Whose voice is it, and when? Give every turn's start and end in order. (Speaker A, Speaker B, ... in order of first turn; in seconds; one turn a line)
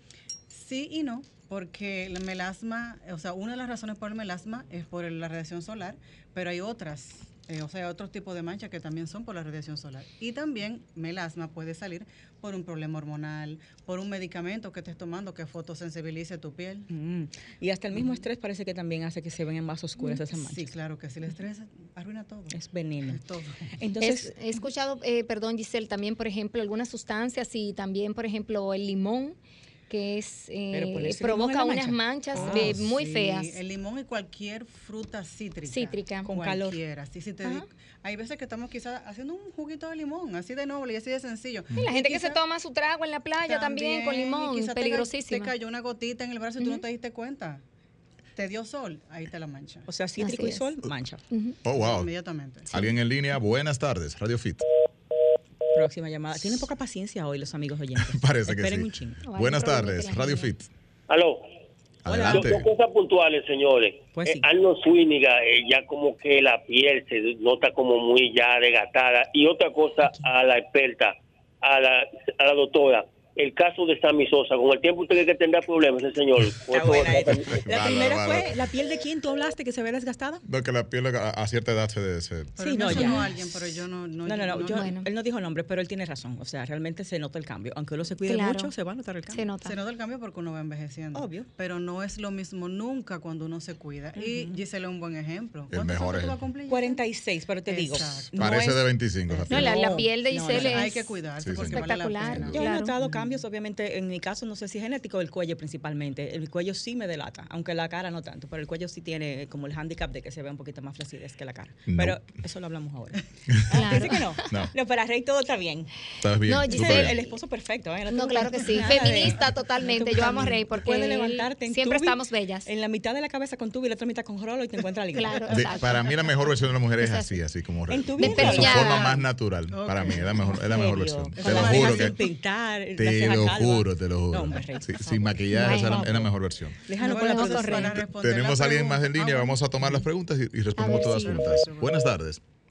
Speaker A: 0.5-16.9
Speaker B: 16.9-20.7
Speaker A: 17.9-18.2
Speaker A: 20.3-23.7
Speaker B: 22.5-23.2
Speaker B: 23.8-24.3
Speaker C: 24.0-29.4
Speaker C: 29.9-33.6
Speaker B: 30.7-32.7
Speaker A: 32.3-42.4
Speaker C: 35.7-36.3
Speaker B: 36.2-36.8
Speaker C: 41.8-45.5
Speaker A: 43.5-47.6
Speaker C: 46.6-46.8
Speaker A: 48.4-49.9
Speaker B: 49.9-51.2
Speaker C: 50.2-50.6
Speaker C: 51.3-51.6
Speaker D: 51.6-52.1
Speaker A: 51.7-52.7
Speaker D: 52.7-54.6
Speaker B: 55.7-59.2
Speaker D: 58.0-60.7
Speaker C: 59.2-60.5
Speaker E: 61.1-61.4
Speaker D: 62.0-62.7
Speaker B: 62.1-62.5
Speaker E: 62.3-77.6
Speaker B: 64.1-64.5
Speaker B: 76.7-80.4
Speaker D: 77.5-78.6
Speaker D: 80.4-83.0
Speaker A: 82.6-84.9
Speaker B: 82.6-83.4
Speaker C: 82.9-83.2
Speaker B: 84.2-89.5
Speaker C: 84.7-85.1
Speaker C: 88.2-88.7
Speaker C: 89.3-89.8
Speaker A: 89.6-97.0
Speaker B: 91.1-91.5
Speaker B: 94.2-94.6
Speaker D: 95.7-96.4
Speaker B: 96.7-98.8
Speaker A: 97.7-98.4
Speaker D: 98.3-99.6
Speaker A: 99.3-103.3
Speaker B: 99.5-100.9
Speaker C: 99.5-102.9
Speaker D: 101.4-102.6
Speaker B: 102.5-115.9
Speaker D: 111.9-112.2
Speaker C: 113.7-114.5
Speaker D: 116.2-117.2
Speaker C: 116.4-117.3
Speaker B: 116.7-125.4
Speaker C: 118.1-122.7
Speaker C: 125.1-126.1
Speaker D: 125.5-132.2
Speaker C: 127.0-127.4
Speaker B: 127.9-128.9
Speaker C: 128.2-129.1
Speaker A: 128.6-130.6
Speaker B: 130.5-136.3
Speaker A: 131.4-132.2
Speaker D: 133.0-136.8
Speaker C: 135.5-136.0
Speaker B: 136.8-137.9
Speaker A: 137.0-140.0
Speaker C: 137.1-138.0
Speaker D: 138.0-142.4
Speaker C: 140.8-141.5
Speaker A: 141.0-142.0